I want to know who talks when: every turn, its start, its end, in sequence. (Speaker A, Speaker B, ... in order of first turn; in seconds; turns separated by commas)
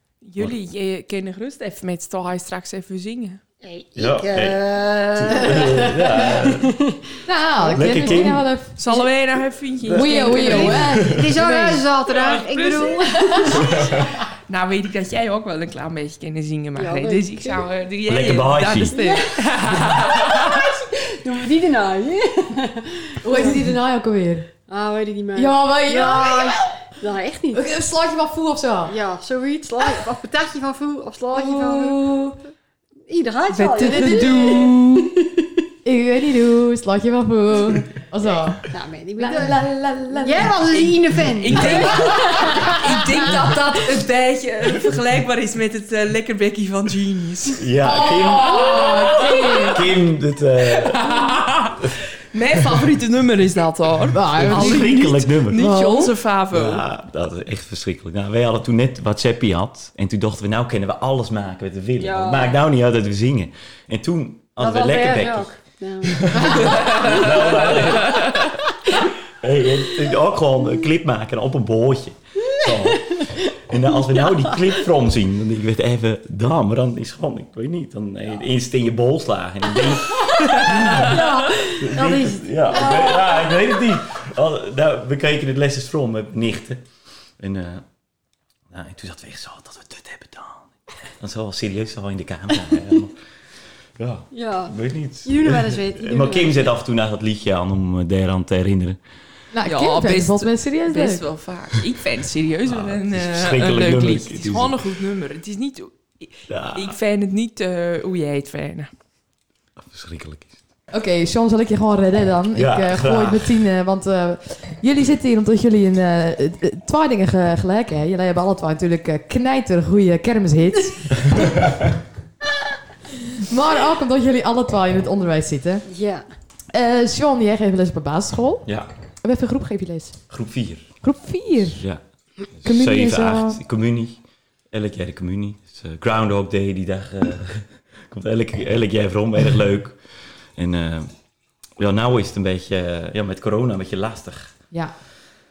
Speaker A: 0.2-3.4, Speaker B: 3.6-7.1, Speaker C: 4.0-4.6, Speaker C: 5.2-6.7, Speaker D: 7.2-9.0, Speaker B: 7.6-8.2, Speaker C: 7.7-8.4, Speaker A: 8.8-10.9, Speaker D: 9.9-11.8, Speaker C: 9.9-11.2, Speaker B: 10.2-13.9, Speaker A: 12.1-13.9, Speaker C: 13.6-14.1, Speaker A: 14.5-20.7, Speaker B: 16.8-17.7, Speaker C: 18.1-19.0, Speaker B: 18.9-23.7, Speaker D: 23.2-24.5, Speaker B: 24.7-27.7, Speaker D: 25.3-26.8, Speaker D: 27.5-29.0, Speaker B: 28.9-32.2, Speaker D: 31.3-32.4, Speaker B: 33.1-35.5, Speaker A: 33.5-35.1, Speaker D: 33.8-34.7, Speaker D: 35.8-38.6, Speaker B: 38.7-42.9, Speaker D: 39.2-41.0, Speaker A: 41.4-49.8, Speaker C: 47.6-51.1, Speaker D: 47.8-49.9, Speaker A: 50.8-56.9, Speaker D: 54.1-56.1, Speaker C: 54.4-55.7, Speaker C: 56.5-65.5, Speaker B: 62.0-62.6, Speaker B: 64.6-68.0, Speaker C: 66.2-86.8, Speaker B: 72.5-73.4, Speaker B: 74.1-74.7, Speaker B: 79.8-83.8, Speaker C: 87.4-87.8, Speaker C: 88.7-93.2, Speaker C: 94.0-99.0, Speaker B: 94.3-96.7, Speaker D: 99.5-101.2, Speaker A: 99.7-108.9, Speaker C: 102.7-104.8, Speaker C: 106.5-106.9, Speaker C: 109.8-110.6, Speaker D: 110.9-121.7, Speaker C: 112.5-113.5, Speaker C: 121.3-121.8, Speaker D: 123.1-125.8, Speaker B: 125.9-126.2, Speaker D: 126.7-128.7, Speaker C: 128.7-128.9, Speaker D: 129.2-130.2, Speaker C: 130.3-131.0, Speaker D: 131.0-131.9, Speaker C: 131.8-134.2, Speaker D: 132.6-133.6, Speaker C: 134.7-140.0, Speaker C: 140.6-141.1, Speaker C: 141.8-144.6